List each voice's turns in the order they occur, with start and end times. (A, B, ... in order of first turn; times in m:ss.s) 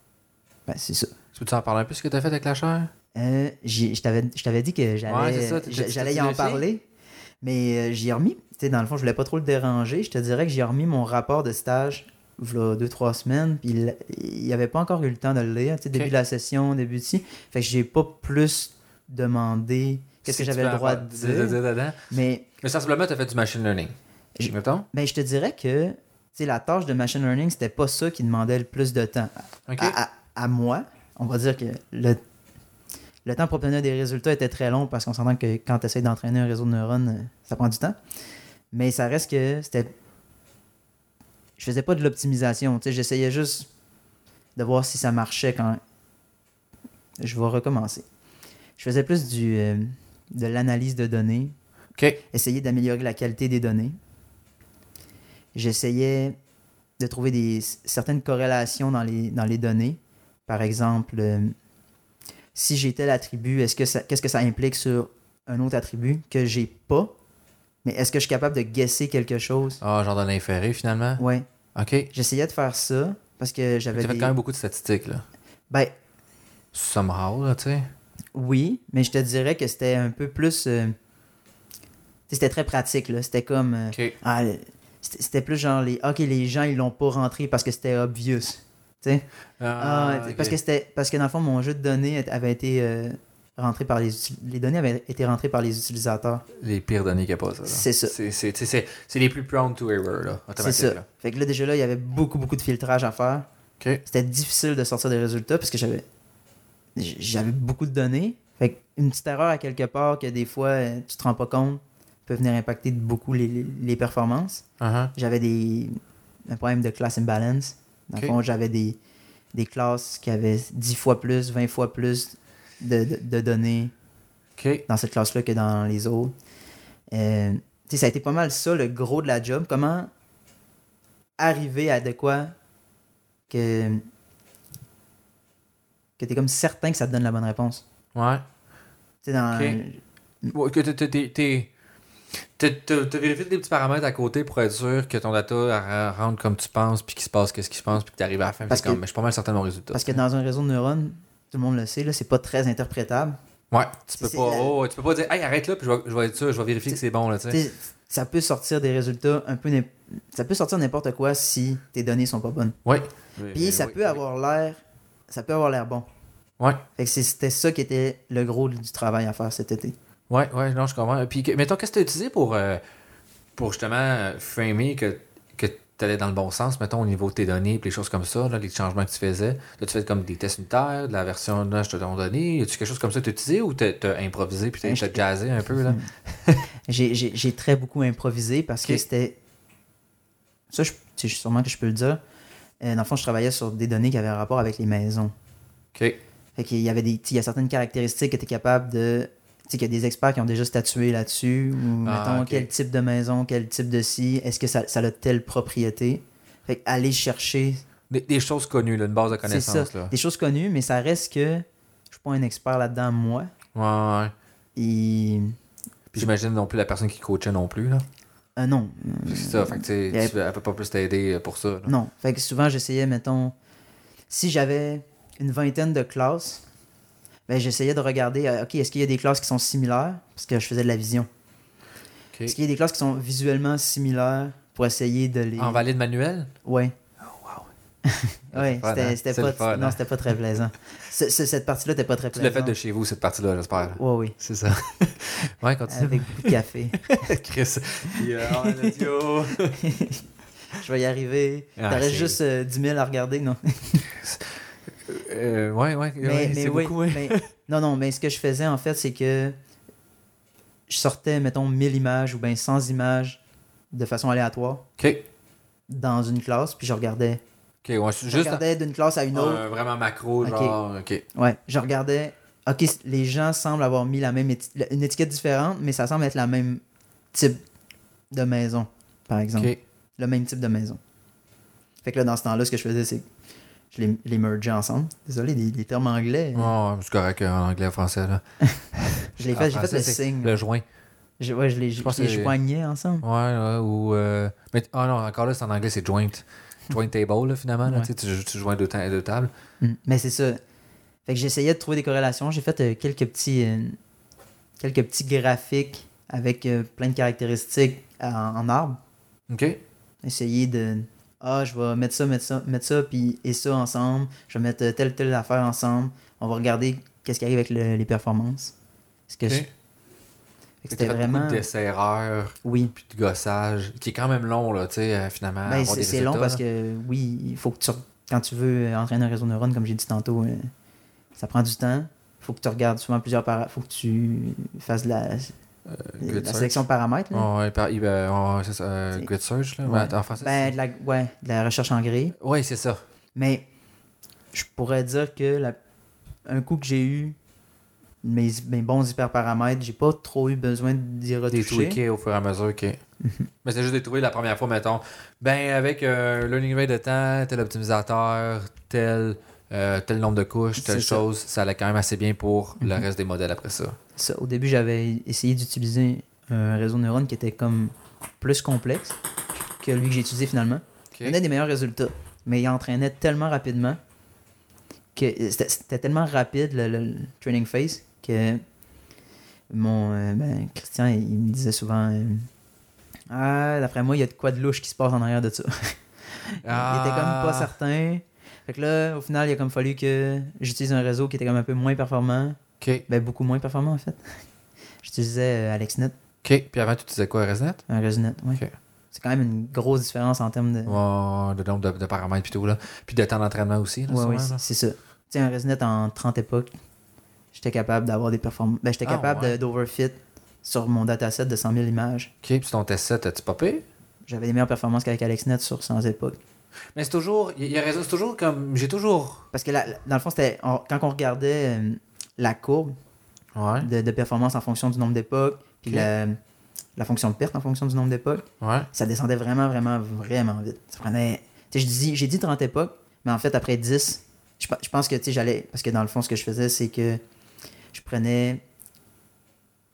0:00.7-0:01.1 A
0:01.3-0:02.9 B
0:03.1-0:06.8 A
0:05.1-0:06.6 B
0:07.4-0:21.6 A
0:20.2-0:22.0 B
0:22.1-0:22.5 A
0:22.6-0:23.9 B
0:24.4-0:32.2 A
0:24.5-0:24.9 B
0:29.7-0:30.0 B
0:33.2-0:38.0 A
0:38.7-0:39.9 A
0:41.6-0:43.7 A
0:44.6-0:45.8 A
0:47.2-0:48.0 A
0:48.8-0:51.5 A
0:52.3-0:53.9 A
0:55.5-0:56.4 A
0:57.0-1:01.5 A
1:02.5-1:07.1 A
1:07.8-1:09.8 A
1:09.8-1:11.2 B
1:11.2-1:11.4 A
1:11.7-1:12.1 B
1:12.1-1:14.3 A
1:13.9-1:15.2 B
1:16.7-1:17.9 B
1:18.3-1:20.9 A
1:22.3-1:29.2 A
1:29.6-1:30.6 B
1:29.8-1:36.4 A
1:36.6-1:41.0 B
1:37.6-1:38.1 A
1:40.6-1:43.4 A
1:44.0-1:46.0 A
1:47.0-1:54.6 A
1:54.8-1:55.1 B
1:55.1-1:56.0 A
1:56.5-1:59.0 A
1:59.5-2:03.9 A
2:04.6-2:04.8 B
2:04.9-2:06.3 A
2:07.1-2:10.1 A
2:11.4-2:12.5 A
2:13.5-2:14.0 A
2:16.2-2:17.8 A
2:18.1-2:18.4 B
2:19.2-2:20.5 A
2:19.5-2:19.8 B
2:20.5-2:21.7 B
2:22.6-2:30.2 B
2:28.7-2:29.0 A
2:29.9-2:33.4 A
2:33.7-2:37.6 B
2:34.2-2:34.7 A
2:37.5-2:42.8 A
2:42.8-2:44.2 B
2:43.5-2:46.0 A
2:47.0-2:49.9 A
2:50.3-2:52.8 B
2:53.6-3:06.6 B
3:04.8-3:05.2 A
3:05.8-3:06.1 A
3:06.9-3:09.4 A
3:10.7-3:12.2 A
3:12.8-3:15.3 A
3:16.6-3:27.8 A
3:22.0-3:22.7 B
3:28.1-3:30.1 B
3:29.4-3:33.5 A
3:33.7-3:34.3 B
3:34.8-3:35.5 A
3:36.1-3:38.0 B
3:38.6-3:40.3 A
3:39.3-3:41.9 B
3:41.8-3:43.5 A
3:44.3-3:46.6 A
3:47.5-3:51.3 A
3:52.5-3:55.8 A
3:55.6-3:56.5 B
3:56.6-3:56.9 A
3:57.2-3:57.7 B
3:58.0-4:02.7 A
3:58.5-4:00.0 B
4:02.3-4:09.8 B
4:04.0-4:04.4 A
4:05.9-4:07.1 A
4:08.1-4:09.0 A
4:09.7-4:10.2 A
4:10.7-4:14.1 A
4:11.8-4:12.4 B
4:14.1-4:17.4 B
4:16.2-4:19.5 A
4:20.9-4:23.4 A
4:23.9-4:24.9 A
4:25.0-4:25.2 B
4:25.9-4:27.4 A
4:27.8-4:28.6 B
4:28.3-4:29.6 A
4:29.3-4:31.2 B
4:30.4-4:30.8 A
4:31.3-4:36.8 A
4:37.3-4:37.6 A
4:38.3-4:41.0 A
4:42.0-4:43.2 A
4:43.9-4:46.7 A
4:46.5-4:48.4 B
4:48.9-4:50.8 B
4:49.4-4:50.5 A
4:51.4-4:53.2 A
4:52.0-4:52.5 B
4:53.2-4:59.5 B
4:59.8-5:00.6 A
5:01.2-5:04.0 A
5:04.8-5:09.0 A
5:09.5-5:09.8 B
5:10.2-5:18.7 A
5:19.3-5:19.6 A
5:20.8-5:21.6 A
5:20.9-5:26.6 B
5:22.6-5:22.9 A
5:25.6-5:30.7 A
5:31.4-5:35.5 A
5:35.9-5:40.7 B
5:36.2-5:37.5 A
5:39.8-5:42.3 A
5:42.4-5:43.0 B
5:43.3-5:43.6 A
5:44.5-5:45.8 A
5:46.5-5:47.4 A
5:48.2-5:52.0 A
5:51.5-5:53.0 B
5:53.6-6:04.0 B
6:00.8-6:01.2 A
6:04.2-6:09.2 A
6:09.8-6:14.0 A
6:15.2-6:18.6 A
6:19.7-6:22.5 A
6:23.3-6:34.2 A
6:26.6-6:27.7 B
6:32.8-6:33.0 B
6:35.0-6:36.1 A
6:36.4-6:37.8 B
6:37.9-6:41.0 A
6:40.8-6:44.6 B
6:44.1-6:46.7 A
6:47.5-6:52.3 A
6:49.0-6:49.6 B
6:52.4-6:53.8 B
6:54.3-6:56.4 A
6:56.9-6:59.5 B
6:59.5-7:02.9 A
7:03.5-7:03.9 B
7:03.8-7:06.4 A
7:07.0-7:17.2 A
7:08.6-7:08.9 B
7:17.9-7:18.6 A